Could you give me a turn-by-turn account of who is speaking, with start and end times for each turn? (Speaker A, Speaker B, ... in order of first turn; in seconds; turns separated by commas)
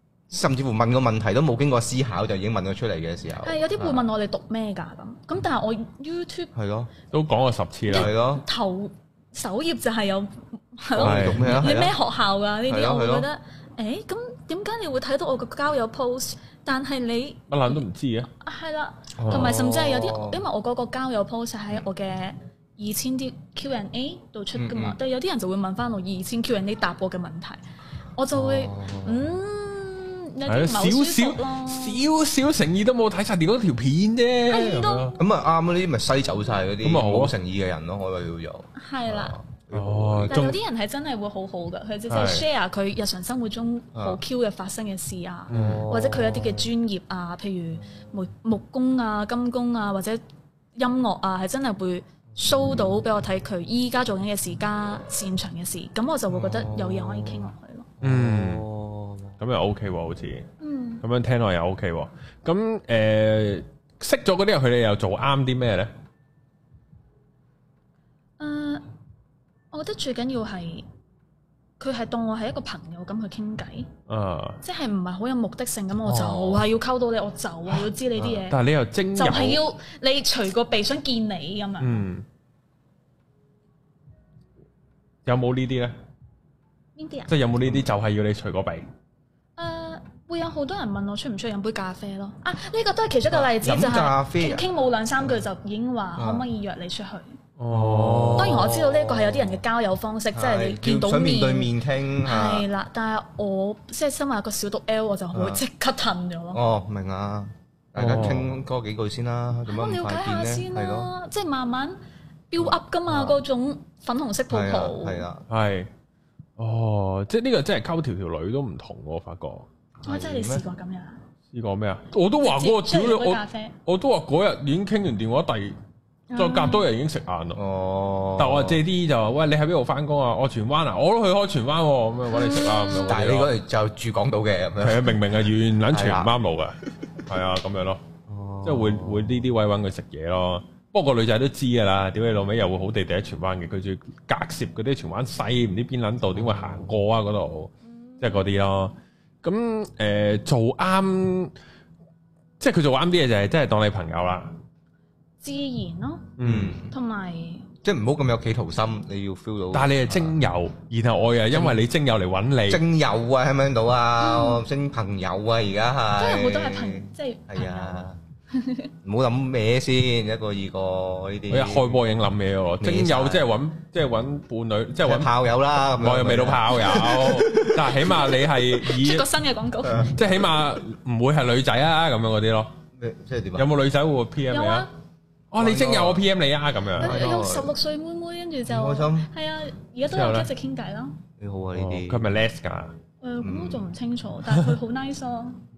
Speaker A: 0.3-4.0, Speaker B: 3.4-6.5, Speaker A: 6.5-6.9, Speaker C: 7.1-8.1, Speaker A: 7.9-8.4, Speaker B: 7.9-27.6, Speaker A: 10.9-12.0, Speaker C: 11.0-11.7, Speaker A: 12.7-13.3, Speaker C: 17.5-18.3, Speaker C: 19.2-19.5, Speaker A: 19.2-20.4, Speaker A: 24.6-25.0, Speaker B: 28.1-32.0, Speaker A: 28.3-29.4, Speaker C: 30.4-35.2, Speaker B: 34.5-35.2, Speaker A: 35.2-40.5, Speaker C: 36.8-37.3, Speaker B: 38.8-39.4, Speaker C: 39.7-40.6, Speaker B: 40.3-50.2, Speaker C: 42.1-42.4, Speaker A: 43.9-44.2, Speaker C: 45.5-45.8, Speaker A: 45.5-46.7, Speaker B: 50.8-57.9, Speaker A: 52.4-53.0, Speaker A: 56.3-59.4, Speaker C: 58.0-58.7, Speaker C: 59.4-60.5, Speaker B: 60.6-61.0, Speaker C: 61.0-65.9, Speaker B: 68.4-68.8, Speaker B: 69.7-70.8, Speaker B: 71.8-73.9, Speaker C: 74.1-74.6, Speaker B: 74.6-78.6, Speaker A: 76.0-76.6, Speaker A: 78.2-78.4, Speaker C: 78.5-79.6, Speaker B: 79.2-82.0, Speaker C: 81.8-82.2, Speaker C: 85.2-85.9, Speaker B: 87.0-87.3, Speaker C: 87.3-88.8, Speaker B: 89.6-97.3, Speaker A: 93.3-94.7, Speaker A: 96.2-96.4, Speaker C: 97.6-98.7, Speaker A: 97.7-99.6, Speaker B: 98.3-101.7, Speaker A: 100.3-102.7, Speaker B: 102.2-106.6, Speaker A: 105.3-105.6, Speaker A: 106.5-111.1, Speaker C: 108.0-108.5, Speaker B: 109.7-112.0, Speaker B: 112.5-115.3, Speaker A: 112.6-113.4, Speaker A: 114.5-115.5, Speaker C: 115.5-115.9, Speaker C: 116.6-119.7, Speaker A: 120.0-120.6, Speaker B: 120.0-121.2, Speaker C: 121.5-125.8, Speaker B: 122.4-123.7, Speaker B: 126.3-126.9, Speaker C: 126.3-127.6, Speaker A: 127.5-128.8, Speaker C: 128.4-133.5, Speaker B: 132.3-133.1, Speaker A: 133.1-135.3, Speaker C: 134.8-138.0, Speaker A: 135.9-136.3, Speaker A: 138.3-139.5, Speaker C: 138.6-151.5, Speaker B: 148.1-148.5, Speaker C: 152.6-154.5, Speaker B: 155.4-156.4, Speaker C: 156.4-156.8, Speaker A: 156.4-156.9, Speaker B: 156.9-157.7, Speaker A: 157.8-160.4, Speaker C: 159.7-162.8, Speaker A: 161.5-161.8, Speaker A: 162.7-168.2, Speaker B: 164.2-164.6, Speaker B: 166.2-168.9, Speaker A: 169.0-172.0, Speaker C: 171.5-175.3, Speaker A: 172.8-173.5, Speaker A: 175.0-178.1, Speaker C: 175.9-179.2, Speaker B: 178.1-180.1, Speaker A: 179.8-180.1, Speaker C: 180.0-182.7, Speaker A: 182.9-183.7, Speaker C: 183.6-184.9, Speaker B: 184.5-184.9, Speaker C: 185.5-187.2, Speaker A: 185.6-186.2, Speaker A: 187.0-187.7, Speaker B: 187.0-191.2, Speaker A: 188.7-189.3, Speaker C: 190.1-190.5, Speaker A: 191.4-192.3, Speaker C: 191.8-192.9, Speaker B: 193.2-195.6, Speaker A: 193.4-193.8